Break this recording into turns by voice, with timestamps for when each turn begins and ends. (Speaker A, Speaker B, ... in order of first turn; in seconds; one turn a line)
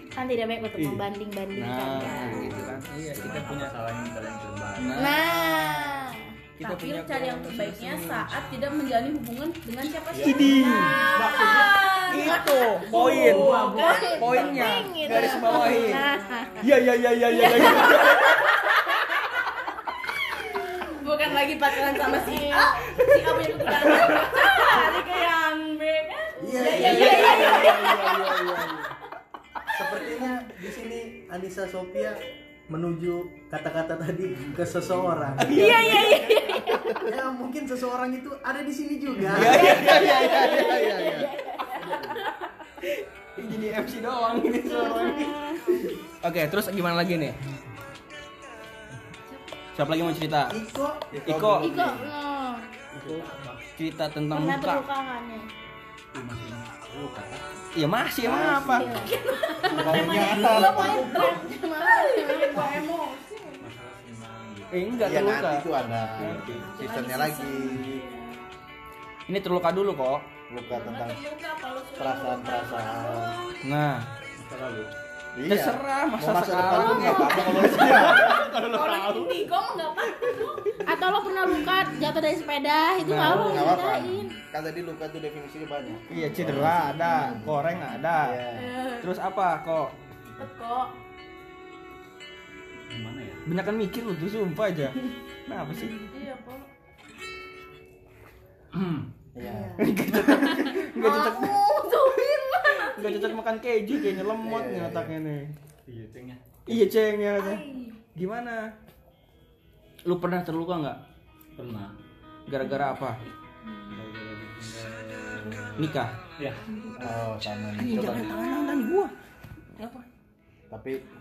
Speaker A: 0.1-2.7
Speaker B: 0.8-3.7
Speaker C: 2.2-5.1
Speaker B: 4.8-5.7
Speaker A: 5.0-6.3
Speaker B: 6.6-8.3
Speaker D: 6.6-14.3
Speaker C: 10.1-12.1
Speaker B: 10.2-11.1
Speaker B: 12.1-16.0
Speaker A: 12.3-16.7
Speaker C: 12.9-14.7
Speaker D: 15.0-16.7
Speaker B: 16.6-18.4
Speaker D: 17.3-18.4
Speaker D: 20.9-28.8
Speaker A: 21.9-23.0
Speaker E: 26.4-27.5
Speaker B: 26.8-28.0
Speaker C: 27.0-28.7
Speaker A: 27.1-27.5
Speaker E: 29.7-35.5
Speaker B: 35.4-36.8
Speaker D: 35.4-37.0
Speaker E: 37.0-39.8
Speaker B: 39.2-40.2
Speaker F: 39.5-41.3
Speaker D: 39.5-42.4
Speaker A: 40.3-42.0
Speaker B: 42.8-47.4
Speaker A: 44.6-45.6
Speaker B: 49.7-50.5
Speaker E: 50.5-51.1
Speaker F: 51.1-52.1
Speaker B: 51.2-51.7
Speaker A: 51.6-52.6
Speaker C: 53.0-53.7
Speaker B: 53.8-54.8
Speaker A: 54.3-55.5
Speaker C: 56.1-57.4
Speaker B: 57.8-58.9
Speaker F: 58.2-59.0
Speaker A: 58.8-62.9
Speaker D: 58.8-63.7
Speaker C: 59.7-60.7
Speaker F: 59.7-61.2
Speaker C: 63.6-66.7
Speaker B: 64.7-65.7
Speaker F: 65.0-68.0
Speaker B: 66.2-66.5
Speaker D: 66.6-68.4
Speaker B: 69.3-70.3
Speaker F: 70.5-71.2
Speaker D: 70.6-73.6
Speaker F: 72.0-73.4
Speaker B: 73.6-74.1
Speaker C: 74.4-74.9
Speaker F: 75.3-78.4
Speaker B: 75.5-79.3
Speaker A: 76.7-77.2
Speaker D: 77.1-80.9
Speaker A: 80.8-84.3
Speaker B: 83.0-83.8
Speaker F: 83.2-88.7
Speaker B: 86.1-88.4
Speaker D: 88.5-89.1
Speaker B: 89.0-89.9
Speaker D: 90.4-90.9
Speaker C: 92.9-93.4
Speaker B: 93.5-96.0
Speaker D: 95.7-96.6
Speaker C: 98.7-99.1
Speaker F: 99.3-100.5
Speaker D: 99.4-99.9
Speaker B: 99.8-101.6
Speaker D: 100.4-103.3
Speaker A: 101.4-102.3
Speaker B: 102.9-105.5
Speaker F: 104.4-105.1
Speaker C: 105.9-106.8
Speaker B: 106.7-107.6
Speaker D: 107.3-108.0
Speaker B: 108.1-108.7
Speaker B: 110.0-111.0
Speaker C: 111.5-111.9
Speaker B: 112.5-113.2
Speaker D: 112.6-114.0
Speaker C: 113.9-117.2
Speaker B: 115.8-116.2
Speaker F: 117.0-118.4
Speaker B: 117.8-119.1
Speaker B: 119.8-120.0
Speaker F: 120.7-121.0